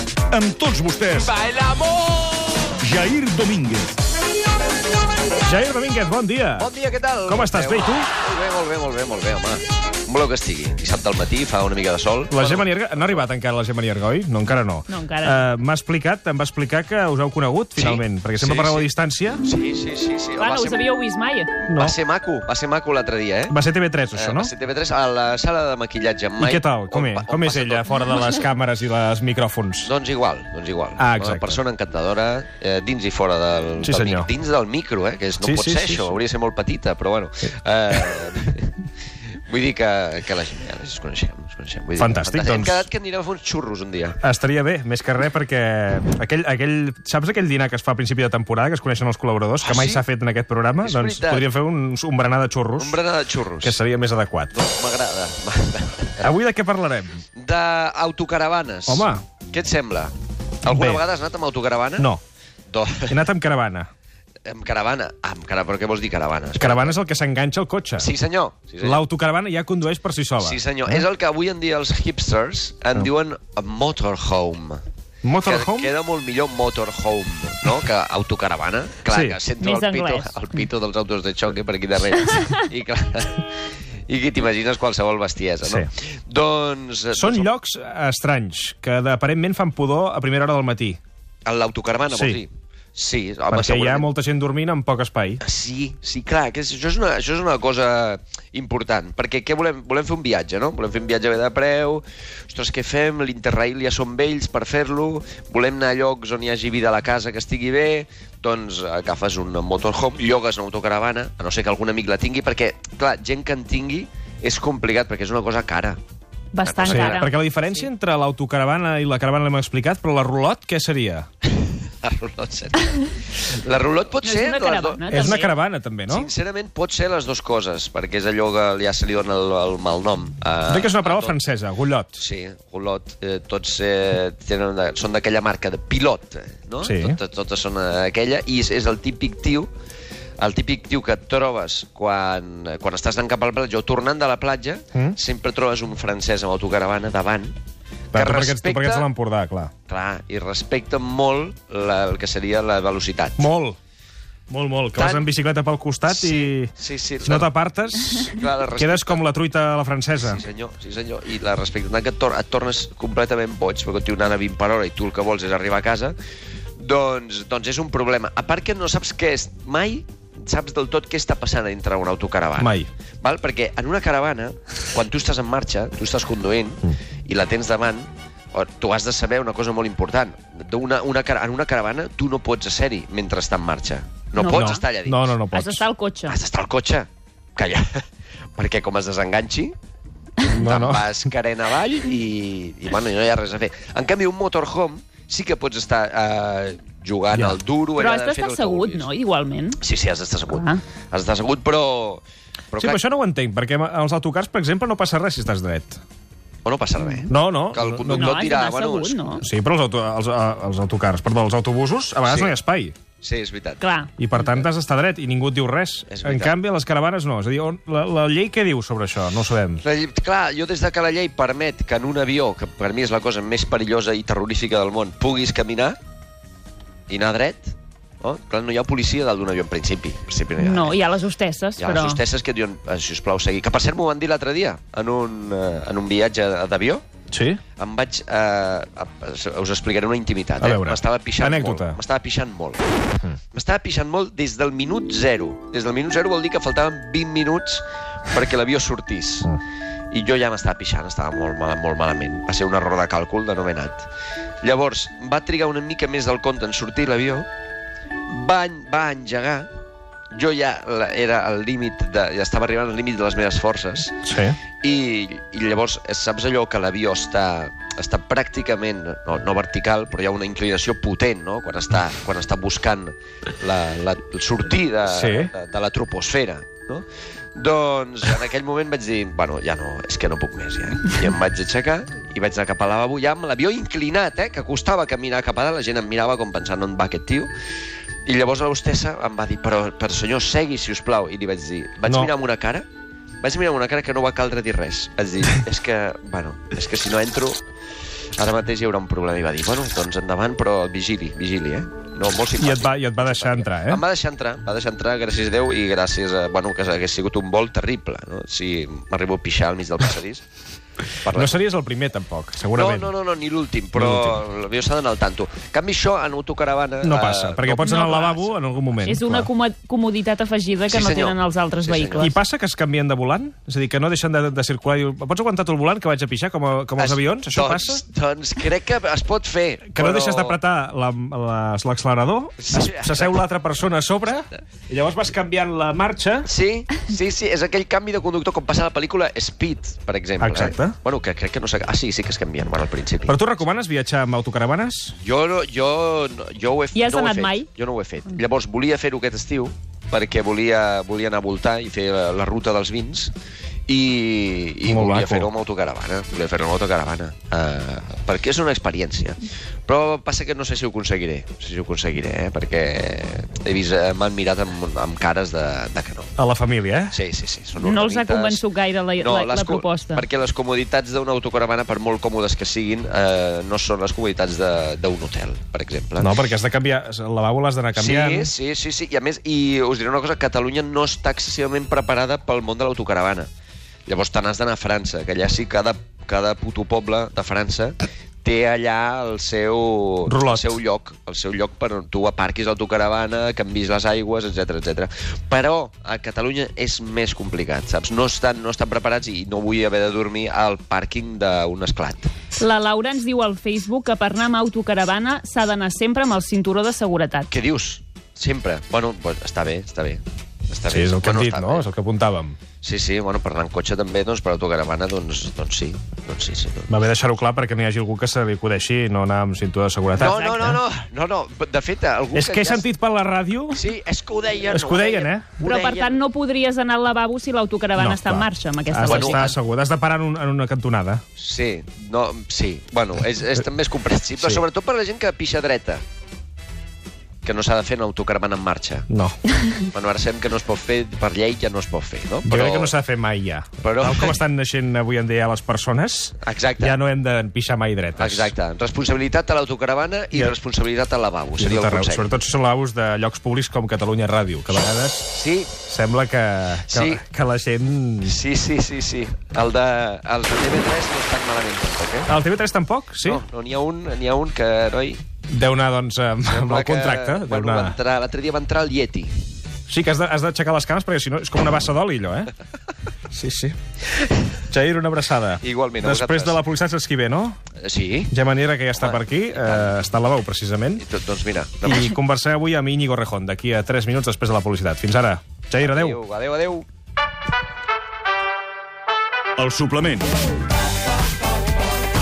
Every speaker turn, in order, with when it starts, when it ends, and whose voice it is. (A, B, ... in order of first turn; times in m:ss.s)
0:00.3-0:01.4 A
0:02.8-0:04.0 A
0:05.4-0:06.7 B
0:06.6-0:13.2 C
0:07.3-0:08.1 B
0:12.3-0:19.4 B
0:14.9-0:15.4 D
0:17.8-0:18.9 C
0:19.4-0:20.9 C
0:20.4-0:21.5 D
0:21.7-0:23.6 C
0:21.7-0:22.0 B
0:23.5-0:24.5 B
0:24.1-0:28.2 C
0:26.4-0:29.9 B
0:29.8-0:38.8 C
0:31.0-0:31.6 B
0:33.8-0:34.3 B
0:35.4-0:36.2 B
0:39.4-0:44.2 C
0:42.0-0:42.9 B
0:44.2-0:53.0 B
0:49.6-0:50.0 C
0:50.8-0:51.5 C
0:52.8-0:53.8 C
0:53.6-0:54.6 B
0:54.5-0:56.3 C
0:56.2-0:57.2 B
0:57.4-1:02.1 C
0:58.9-0:59.2 B
1:00.6-1:01.0 B
1:02.7-1:03.2 C
1:03.1-1:03.9 B
1:04.4-1:07.0 C
1:06.5-1:08.1 B
1:08.0-1:09.0 C
1:08.8-1:11.0 B
1:10.4-1:14.8 C
1:15.2-1:15.9 B
1:15.4-1:27.5 C
1:19.1-1:19.4 B
1:19.6-1:20.3 D
1:25.6-1:25.9 B
1:27.1-1:31.0 B
1:31.4-1:34.1 C
1:32.1-1:32.4 B
1:33.5-1:35.4 B
1:35.4-1:56.0 C
1:56.5-1:57.3 D
1:56.6-1:57.3 C
1:56.9-2:01.3 B
2:01.6-2:05.4 C
2:04.2-2:05.5 D
2:05.1-2:06.3 B
2:06.1-2:11.4 C
2:10.7-2:12.2 B
2:12.2-2:19.7 C
2:16.8-2:17.2 B
2:20.4-2:27.6 C
2:28.1-2:29.1 C
2:28.1-2:29.7 B
2:29.9-2:33.5 C
2:33.4-2:33.8 B
2:34.5-2:36.7 B
2:35.0-2:35.3 C
2:36.1-2:37.5 C
2:37.2-2:40.4 B
2:38.0-2:39.2 C
2:40.2-2:46.2 C
2:46.8-3:05.2 C
2:52.6-2:52.9 B
3:04.4-3:04.8 D
3:04.5-3:05.8 B
3:05.5-3:06.4 D
3:06.3-3:08.0 C
3:08.6-3:09.8 C
3:10.5-3:11.2 B
3:10.5-3:19.1 C
3:18.0-3:19.8 D
3:19.8-3:23.0 C
3:20.5-3:20.8 D
3:22.8-3:26.0 B
3:26.6-3:29.4 C
3:27.3-3:28.4 B
3:28.1-3:29.4 D
3:29.4-3:33.0 B
3:32.3-3:32.6 C
3:33.2-3:33.8 C
3:33.8-3:34.1 D
3:34.2-3:39.8 B
3:36.1-3:36.6 C
3:39.8-3:46.0 C
3:47.1-3:51.0 C
3:50.6-3:52.2 D
3:51.8-3:57.0 C
3:57.3-3:57.6 B
3:57.8-4:02.8 C
4:00.6-4:02.0 B
4:03.5-4:09.6 C
4:10.1-4:14.1 C
4:14.6-4:17.5 C
4:18.3-4:19.7 C
4:20.3-4:24.2 C
4:24.2-4:24.6 B
4:24.8-4:47.5 C
4:35.1-4:35.5 B
4:48.2-4:52.9 C
4:52.0-4:52.3 B
4:53.4-4:57.6 C
4:58.4-5:10.4 C
5:02.6-5:04.0 B
5:11.2-5:11.6 C
5:11.3-5:13.1 B
5:12.7-5:17.9 C
5:14.0-5:14.4 B
5:17.0-5:19.5 B
5:17.8-5:18.5 D
5:19.0-5:22.3 D
5:20.9-5:22.3 C
5:22.2-5:28.0 B
5:27.0-5:30.6 C
5:29.9-5:36.5 B
5:32.6-5:33.4 C
5:36.4-5:43.4 C
5:40.4-5:41.0 B
5:43.3-5:45.2 B
5:45.2-5:53.3 C
5:47.0-5:47.7 D
5:53.9-6:06.3 C
5:54.8-5:55.5 B
6:06.4-6:07.2 B
6:07.1-6:08.6 C
6:07.8-6:10.2 D
6:09.2-6:16.3 C
6:16.2-6:18.5 B
6:18.0-6:23.5 C
6:24.1-6:42.3 C
6:30.3-6:30.8 B
6:42.6-6:47.5 D
6:47.5-6:51.9 C
6:50.9-6:52.6 B
6:52.8-6:56.9 C
6:56.9-7:00.8 B
7:00.2-7:02.9 C
7:02.3-7:03.9 B
7:03.7-7:06.2 C
7:04.7-7:05.6 B
7:05.6-7:09.6 D
7:08.0-7:11.2 B
7:09.0-7:09.5 C
7:11.4-7:16.0 C
7:17.4-7:19.1 C
7:19.1-7:19.4 B
7:19.9-7:22.9 C
7:22.4-7:28.5 B
7:23.8-7:24.4 C
7:26.4-7:27.0 C
7:28.2-7:32.3 C
7:31.6-7:38.3 B
7:34.8-7:35.7 C
7:36.9-7:37.2 C
7:38.2-7:42.3 C
7:42.3-7:43.4 B
7:43.2-7:45.2 C
7:45.5-7:48.0 B
7:46.5-7:49.3 C
7:49.9-7:52.5 B
7:53.3-7:53.8 B
7:54.7-7:57.6 B
7:55.6-7:56.6 C
7:57.8-7:58.3 C
7:58.3-8:01.0 B
7:58.9-8:00.0 C
8:01.0-8:02.1 C
8:01.8-8:06.2 B
8:05.8-8:06.9 C
8:09.6-8:10.3 A